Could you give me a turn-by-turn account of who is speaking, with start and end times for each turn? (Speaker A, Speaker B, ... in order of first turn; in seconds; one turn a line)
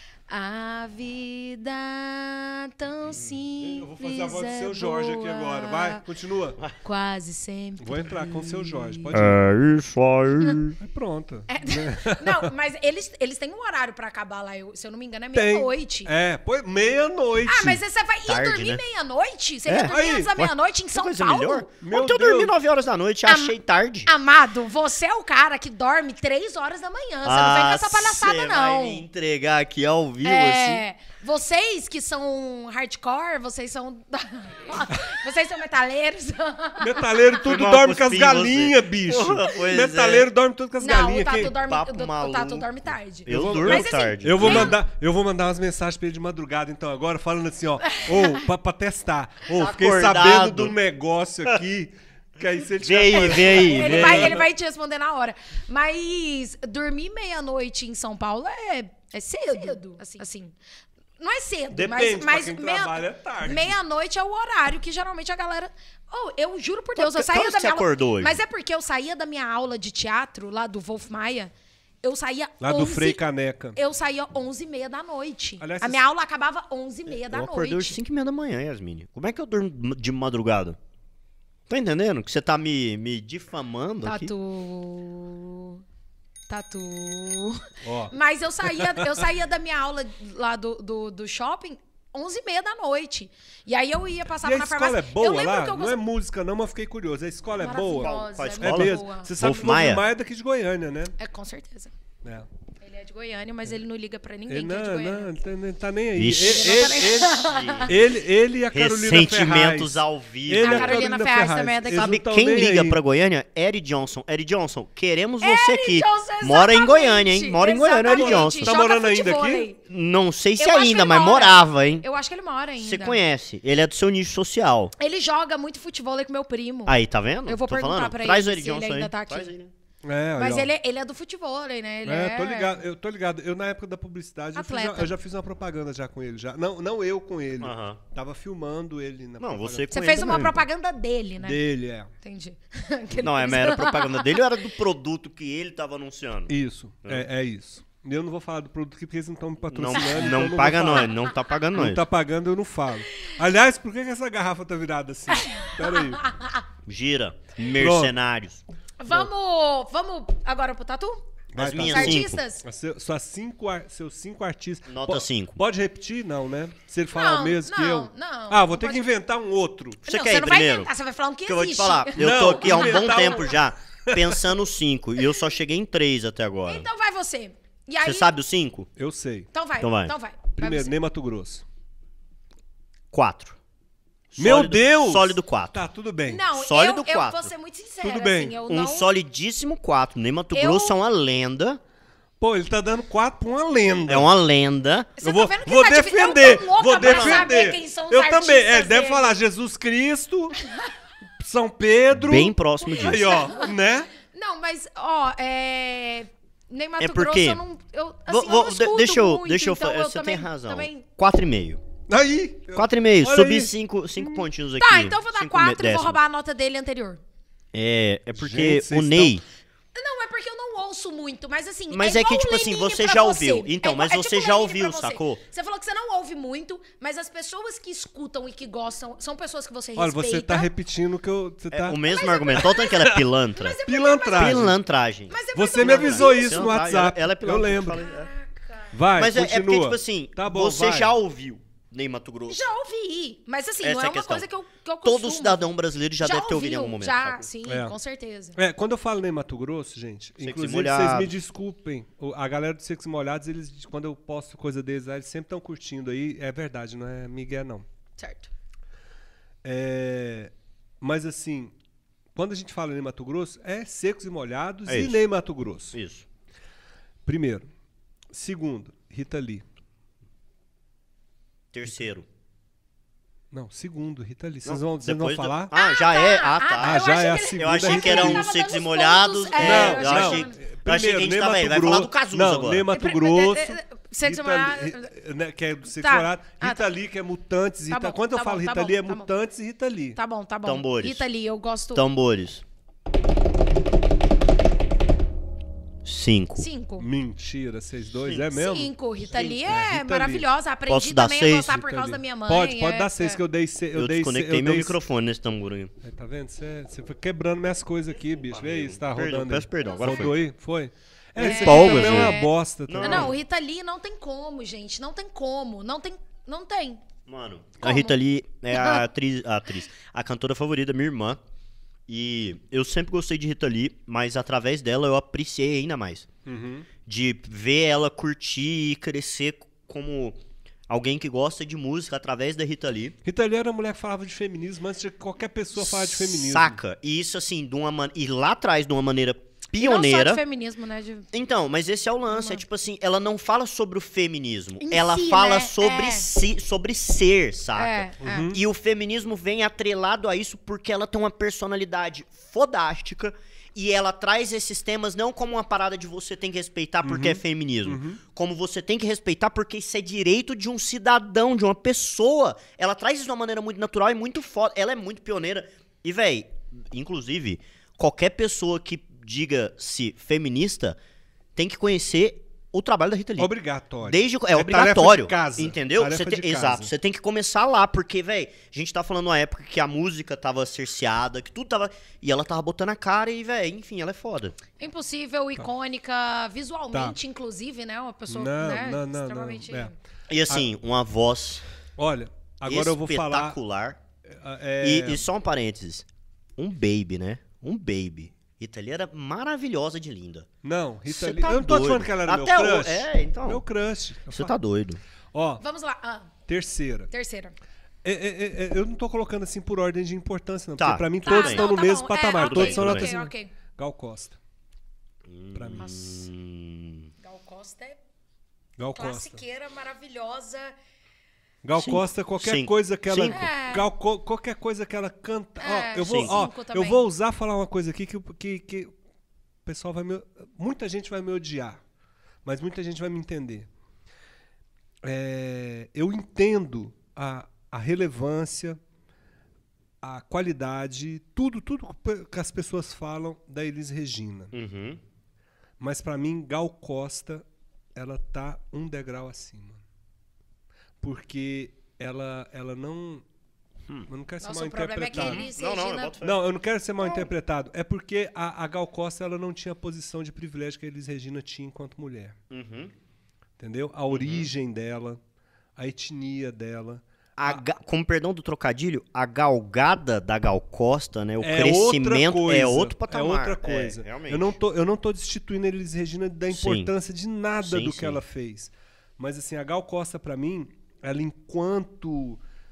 Speaker A: 0.3-6.0
Speaker B: 3.6-6.6
Speaker A: 6.8-9.0
Speaker B: 7.8-9.4
Speaker C: 9.1-10.8
Speaker B: 10.8-12.5
Speaker A: 11.5-16.1
Speaker B: 15.3-17.8
Speaker A: 17.4-21.7
Speaker C: 18.2-18.8
Speaker C: 19.7-24.1
Speaker B: 19.9-20.4
Speaker B: 21.8-22.5
Speaker A: 23.2-23.5
Speaker A: 24.1-29.0
Speaker C: 27.2-30.8
Speaker A: 30.2-37.2
Speaker B: 36.8-41.5
Speaker C: 37.4-40.3
Speaker A: 40.8-44.8
Speaker C: 41.5-44.8
Speaker B: 43.3-54.5
Speaker A: 47.9-48.4
Speaker C: 49.5-50.8
Speaker C: 52.8-54.4
Speaker A: 53.5-60.5
Speaker A: 61.2-71.5
Speaker B: 61.7-63.8
Speaker C: 67.0-68.4
Speaker A: 72.0-73.2
Speaker B: 72.6-73.8
Speaker A: 73.7-78.0
Speaker B: 75.6-76.0
Speaker C: 77.1-80.8
Speaker C: 81.7-84.3
Speaker A: 84.0-85.8
Speaker A: 86.5-96.0
Speaker B: 87.8-89.2
Speaker B: 94.4-101.1
Speaker A: 97.5-99.3
Speaker C: 98.0-100.0
Speaker A: 101.2-101.9
Speaker A: 102.8-105.3
Speaker B: 104.5-113.0
Speaker C: 106.1-108.0
Speaker A: 106.4-107.9
Speaker C: 108.7-111.1
Speaker A: 110.6-112.2
Speaker C: 111.9-118.8
Speaker A: 115.4-119.8
Speaker B: 118.0-119.7
Speaker C: 119.9-122.0
Speaker A: 120.6-123.2
Speaker C: 122.8-124.9
Speaker A: 125.0-129.5
Speaker C: 126.8-129.7
Speaker B: 130.0-130.7
Speaker A: 130.4-132.8
Speaker B: 132.0-140.5
Speaker A: 134.5-135.1
Speaker C: 137.6-138.0
Speaker C: 139.4-140.7
Speaker A: 139.9-141.6
Speaker B: 141.4-142.1
Speaker A: 142.2-144.4
Speaker C: 143.2-146.5
Speaker B: 146.5-151.2
Speaker C: 149.7-152.0
Speaker B: 151.7-156.2
Speaker A: 155.3-156.6
Speaker C: 156.8-158.6
Speaker B: 157.8-158.1
Speaker A: 159.0-161.2
Speaker B: 161.5-170.0
Speaker C: 161.6-162.4
Speaker A: 161.8-162.6
Speaker C: 164.9-165.6
Speaker A: 167.1-169.1
Speaker C: 170.1-170.9
Speaker A: 170.1-173.0
Speaker C: 171.4-176.9
Speaker B: 172.2-174.4
Speaker A: 176.7-178.3
Speaker C: 178.0-178.9
Speaker B: 178.9-179.5
Speaker A: 179.5-180.9
Speaker C: 179.8-180.1
Speaker B: 180.6-181.6
Speaker C: 183.1-183.6
Speaker C: 184.3-185.8
Speaker B: 184.4-186.4
Speaker A: 186.3-189.1
Speaker C: 186.5-187.5
Speaker B: 188.0-188.6
Speaker C: 188.7-191.8
Speaker A: 190.5-190.9
Speaker B: 192.4-194.3
Speaker C: 194.0-195.1
Speaker A: 195.2-199.3
Speaker B: 195.2-200.6
Speaker C: 197.0-197.5
Speaker B: 201.4-204.1
Speaker C: 202.1-203.5
Speaker A: 202.9-203.7
Speaker A: 204.2-211.1
Speaker C: 207.0-207.6
Speaker C: 208.3-211.8
Speaker B: 212.1-214.4
Speaker C: 212.7-216.2
Speaker A: 214.8-217.2
Speaker C: 217.7-219.4
Speaker B: 218.3-219.4
Speaker A: 219.9-230.7
Speaker C: 221.9-225.4
Speaker B: 230.0-232.0
Speaker C: 231.7-233.8
Speaker A: 232.0-233.0
Speaker B: 232.8-233.2
Speaker A: 233.5-234.7
Speaker B: 233.9-234.8
Speaker C: 234.3-238.3
Speaker A: 235.3-236.8
Speaker B: 235.5-238.0
Speaker A: 237.9-238.9
Speaker B: 238.9-241.1
Speaker C: 239.2-242.6
Speaker A: 242.5-248.6
Speaker C: 243.8-244.4
Speaker C: 245.0-247.5
Speaker B: 247.7-247.9
Speaker B: 248.6-257.8
Speaker C: 250.4-251.3
Speaker A: 258.2-258.5
Speaker B: 259.6-261.7
Speaker B: 262.3-266.0
Speaker C: 264.9-265.2
Speaker C: 265.9-266.3
Speaker B: 267.2-267.7
Speaker B: 268.3-269.6
Speaker C: 271.7-272.2
Speaker B: 273.5-275.7
Speaker C: 274.6-282.9
Speaker A: 275.7-280.6
Speaker B: 276.8-278.5
Speaker B: 279.6-290.2
Speaker A: 282.9-285.1
Speaker A: 285.9-286.9
Speaker A: 287.9-289.3
Speaker A: 290.1-292.0
Speaker C: 290.6-291.2
Speaker C: 291.9-292.6
Speaker C: 296.0-296.6
Speaker A: 296.6-297.1
Speaker B: 297.0-300.4
Speaker A: 298.5-303.4
Speaker C: 299.3-299.6
Speaker C: 300.9-301.8
Speaker B: 301.7-304.9
Speaker C: 303.9-305.9
Speaker B: 306.0-313.3
Speaker C: 308.3-310.4
Speaker A: 309.8-310.2
Speaker C: 311.4-313.4
Speaker A: 311.4-317.0
Speaker C: 317.3-321.4
Speaker A: 317.8-318.2
Speaker A: 318.7-319.0
Speaker C: 322.1-326.3
Speaker B: 326.4-326.9
Speaker C: 327.1-333.1
Speaker B: 333.2-336.8
Speaker C: 335.8-340.4
Speaker A: 339.8-341.3
Speaker C: 341.3-371.0
Speaker A: 342.3-342.6
Speaker A: 344.8-346.3
Speaker A: 347.7-348.5
Speaker B: 348.2-348.6
Speaker B: 357.0-358.2
Speaker C: 371.6-373.5
Speaker B: 373.4-376.9
Speaker C: 374.0-384.6
Speaker A: 384.8-389.9
Speaker B: 386.9-387.2
Speaker B: 388.3-389.9
Speaker C: 390.3-391.6
Speaker B: 392.0-393.6
Speaker C: 392.6-394.0
Speaker B: 394.3-395.2
Speaker C: 394.8-396.1
Speaker C: 396.6-400.5
Speaker B: 400.6-404.5
Speaker C: 401.1-403.6
Speaker C: 404.3-405.0
Speaker B: 405.3-405.6
Speaker A: 405.6-406.3
Speaker B: 406.5-407.1
Speaker A: 407.1-407.5
Speaker B: 408.0-414.4
Speaker C: 410.8-411.7
Speaker A: 411.2-413.5
Speaker C: 412.4-413.1
Speaker C: 415.2-417.1
Speaker B: 415.5-416.0
Speaker A: 415.8-416.2
Speaker A: 417.2-418.0
Speaker B: 418.8-419.4
Speaker A: 418.9-420.7
Speaker B: 421.6-428.9
Speaker C: 421.8-423.4
Speaker A: 423.3-423.8
Speaker A: 425.6-427.0
Speaker C: 426.0-426.3
Speaker B: 429.6-431.8
Speaker B: 432.4-433.7
Speaker B: 435.0-438.8
Speaker B: 440.0-444.5
Speaker C: 444.5-445.0
Speaker B: 445.8-447.4
Speaker B: 447.9-449.8
Speaker B: 451.0-453.2
Speaker B: 454.1-455.5
Speaker A: 454.4-456.1
Speaker C: 455.1-456.4
Speaker B: 456.2-462.4
Speaker C: 462.5-462.9
Speaker B: 463.6-465.2
Speaker C: 464.1-464.5
Speaker B: 465.8-467.6
Speaker C: 467.4-474.5
Speaker B: 471.4-482.4
Speaker C: 476.5-476.9
Speaker C: 477.6-478.2